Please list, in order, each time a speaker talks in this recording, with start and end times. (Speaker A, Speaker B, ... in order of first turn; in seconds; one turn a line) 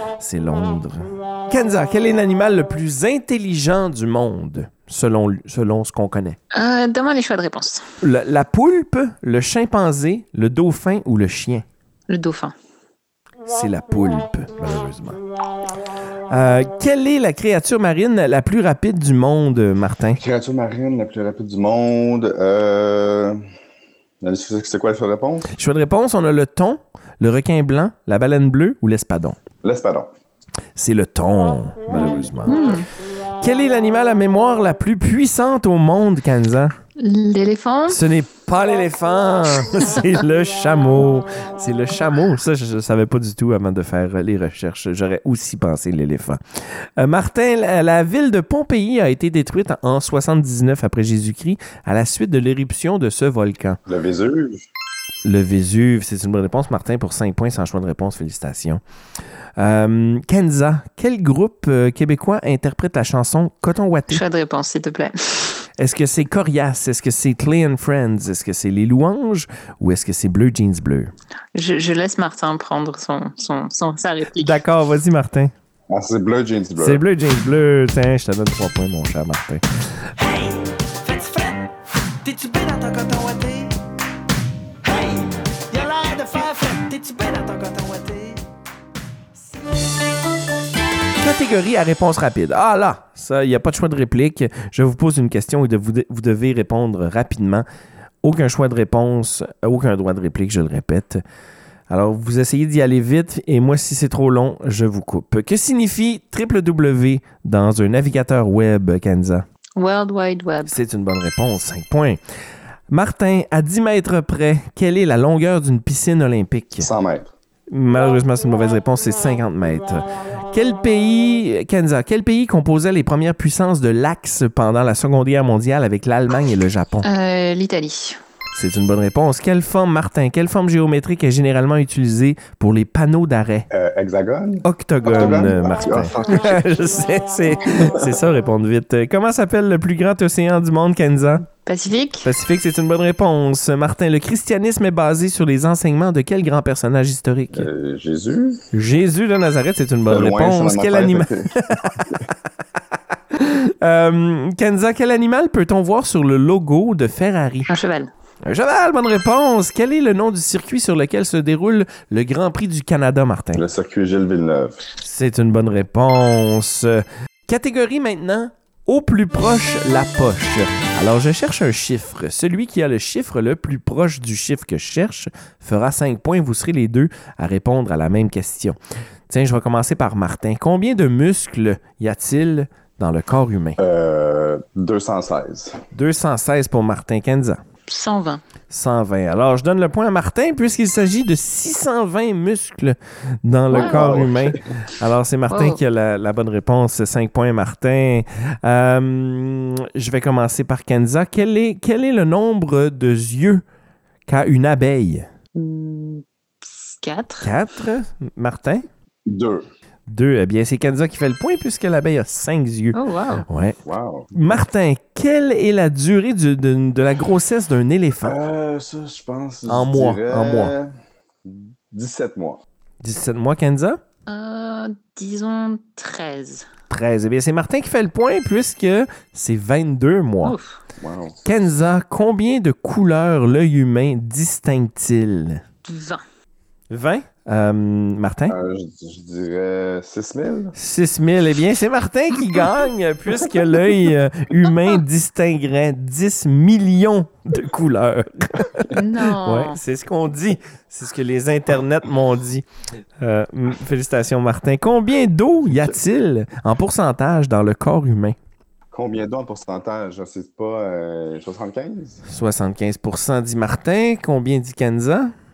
Speaker A: 0.2-6.4
Speaker B: 6.5-7.8
Speaker A: 8.0-11.7
Speaker B: 12.1-12.5
Speaker A: 13.5-15.2
Speaker A: 16.3-20.2
Speaker C: 20.2-23.4
Speaker C: 24.2-25.5
Speaker A: 25.5-29.4
Speaker C: 29.6-30.1
Speaker A: 30.8-32.8
Speaker C: 31.9-32.6
Speaker B: 32.5-32.9
Speaker A: 33.4-36.8
Speaker B: 37.0-38.0
Speaker A: 37.9-46.4
Speaker A: 47.0-53.8
Speaker C: 53.9-54.6
Speaker A: 55.2-58.8
Speaker A: 59.6-64.2
Speaker B: 64.1-65.6
Speaker A: 65.8-71.1
Speaker B: 71.5-74.6
Speaker A: 74.4-75.5
Speaker C: 75.9-77.0
Speaker A: 76.8-79.6
Speaker D: 80.2-81.7
Speaker D: 82.2-83.8
Speaker D: 84.8-88.4
Speaker A: 91.2-97.7
Speaker A: 98.2-101.2
Speaker A: 101.9-109.5
Speaker B: 109.8-110.8
Speaker A: 110.7-112.2
Speaker A: 112.9-116.9
Speaker C: 116.8-117.3
Speaker A: 117.7-127.1
Speaker B: 127.0-128.2
Speaker A: 128.6-133.7
Speaker C: 133.7-136.6
Speaker A: 134.6-141.4
Speaker B: 141.6-142.3
Speaker A: 142.2-147.7
Speaker C: 147.5-148.6
Speaker A: 148.7-152.2
Speaker C: 150.1-152.2
Speaker A: 153.3-157.7
Speaker B: 157.7-158.1
Speaker A: 158.4-163.6
Speaker C: 163.6-164.8
Speaker A: 165.0-178.8
Speaker A: 179.3-183.8
Speaker C: 183.8-185.8
Speaker A: 185.9-187.6
Speaker B: 187.9-188.4
Speaker A: 188.7-203.6
Speaker C: 193.7-194.6
Speaker B: 193.7-194.1
Speaker B: 195.5-195.8
Speaker A: 204.3-205.3
Speaker B: 205.6-207.5
Speaker A: 207.4-208.8
Speaker C: 209.3-209.7
Speaker A: 210.1-213.8
Speaker B: 212.9-213.4
Speaker C: 213.8-214.3
Speaker A: 214.3-218.4
Speaker C: 218.2-220.9
Speaker A: 219.7-220.7
Speaker C: 221.4-222.6
Speaker A: 223.0-224.0
Speaker B: 224.3-226.7
Speaker A: 226.9-230.6
Speaker B: 230.4-230.8
Speaker C: 231.0-231.4
Speaker A: 231.4-235.6
Speaker B: 235.8-236.2
Speaker A: 236.9-238.6
Speaker C: 238.5-240.7
Speaker A: 240.8-252.7
Speaker B: 248.9-249.8
Speaker A: 253.2-258.4
Speaker C: 258.9-262.2
Speaker A: 262.2-265.3